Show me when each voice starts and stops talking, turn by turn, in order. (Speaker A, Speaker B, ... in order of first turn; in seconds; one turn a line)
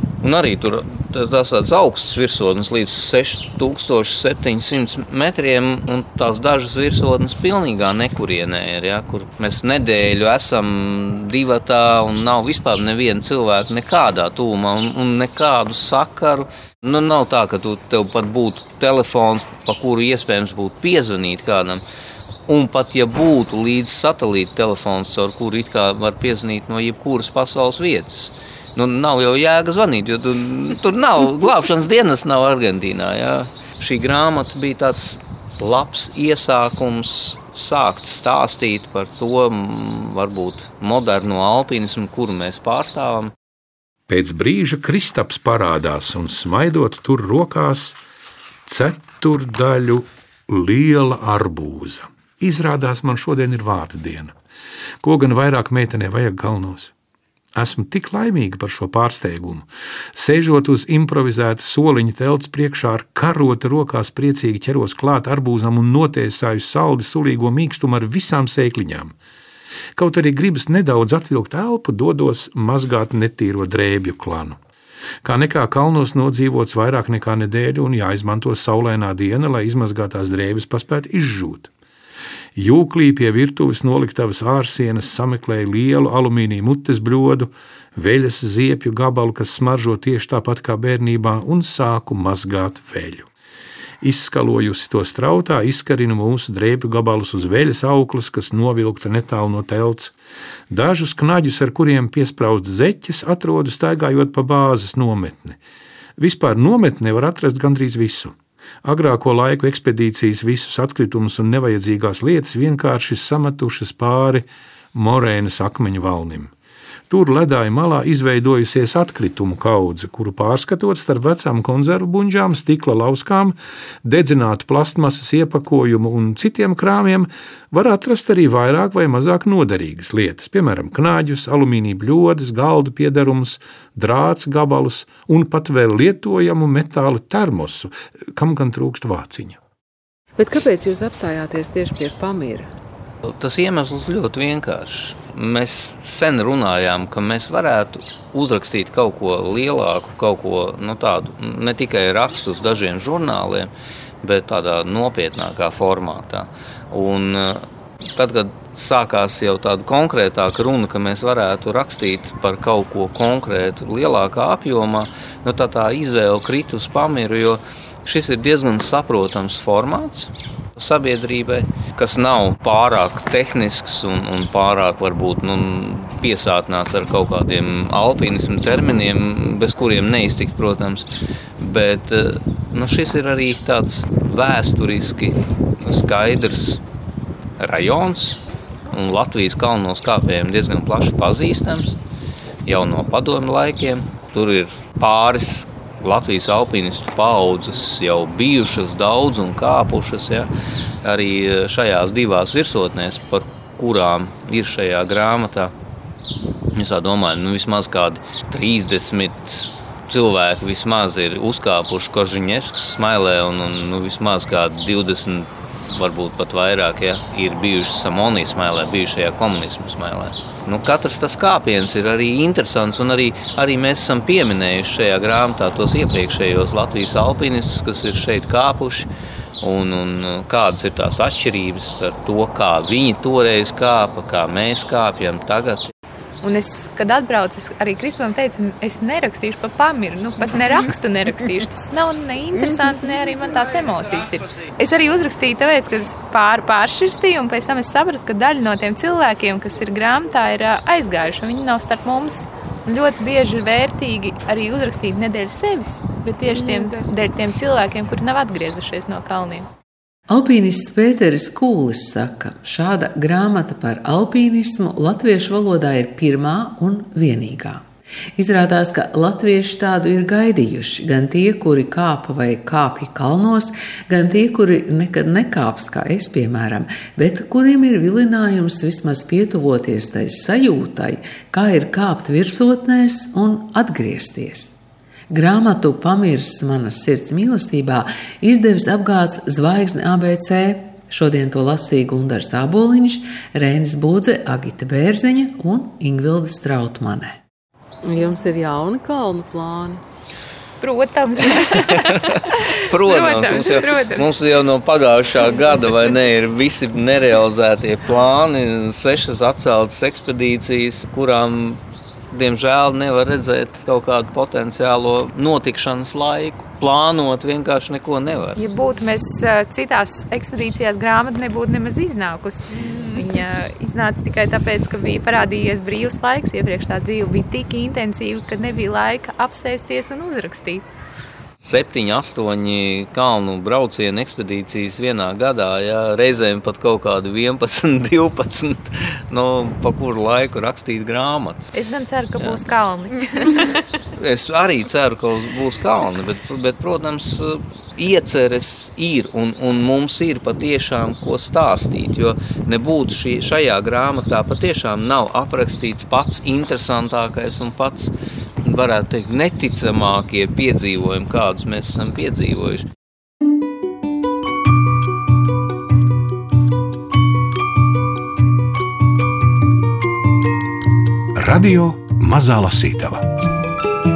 Speaker A: 0.2-21.8
Speaker A: 22.5-43.3
Speaker B: 44.1-48.0
Speaker B: 48.6-54.3
Speaker B: 55.0-56.9
Speaker B: 57.5-69.1
Speaker B: 69.9-74.6
Speaker B: 75.2-81.7
Speaker B: 82.6-93.3
Speaker B: 94.0-100.1
Speaker B: 100.7-105.6
Speaker B: 106.2-116.5
Speaker B: 117.1-139.6
Speaker C: 140.4-142.7
Speaker A: 143.2-153.7
Speaker A: 154.2-181.1
Speaker A: 181.6-186.8
Speaker A: 187.6-188.4
Speaker A: 188.9-192.0
Speaker A: 192.6-200.5
Speaker A: 201.0-205.7
Speaker A: 206.7-229.1
Speaker A: 229.6-235.9
Speaker D: 236.4-259.7
Speaker C: 260.3-267.8
Speaker C: 268.4-284.8
Speaker C: 285.3-297.4
Speaker E: 298.1-300.0
Speaker D: 300.8-304.3
Speaker A: 301.8-318.6
Speaker D: 318.6-330.8
Speaker A: 331.6-341.7
Speaker D: 341.7-343.7
Speaker A: 344.1-362.9
Speaker B: 371.4-373.2